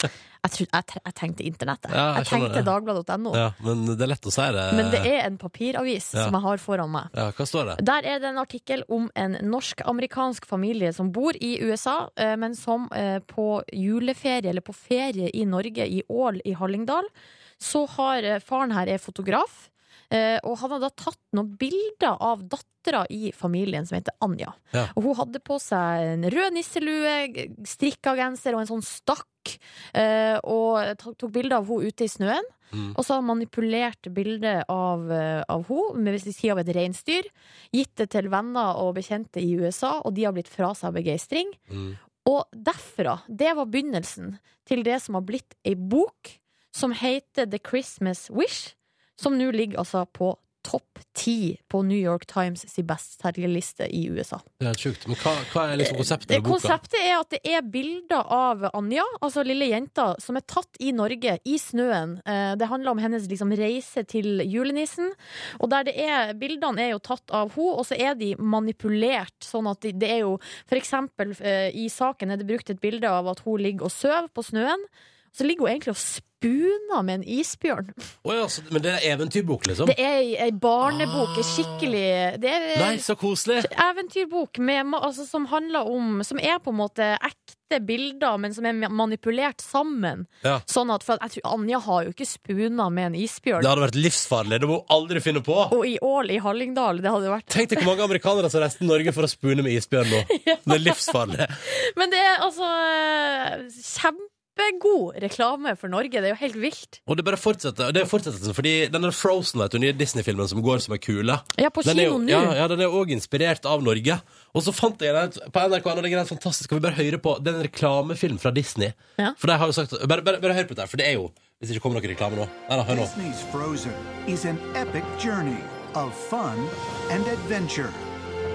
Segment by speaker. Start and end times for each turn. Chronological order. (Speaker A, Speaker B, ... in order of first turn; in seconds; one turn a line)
Speaker A: 0.4-3.4
Speaker B: 1.9-2.7
Speaker B: 3.3-5.1
Speaker A: 4.7-7.1
Speaker B: 7.1-7.8
Speaker A: 7.8-41.6
Speaker B: 41.7-42.0
Speaker A: 42.2-54.4
Speaker B: 54.6-56.8
Speaker A: 55.8-77.9
Speaker B: 78.2-80.0
Speaker A: 79.8-83.0
Speaker B: 80.8-81.9
Speaker B: 82.7-83.7
Speaker A: 83.6-93.7
Speaker B: 93.6-95.7
Speaker A: 95.7-97.9
Speaker B: 97.5-101.6
Speaker A: 100.3-107.0
Speaker B: 107.0-123.1
Speaker A: 111.6-112.6
Speaker C: 122.9-128.1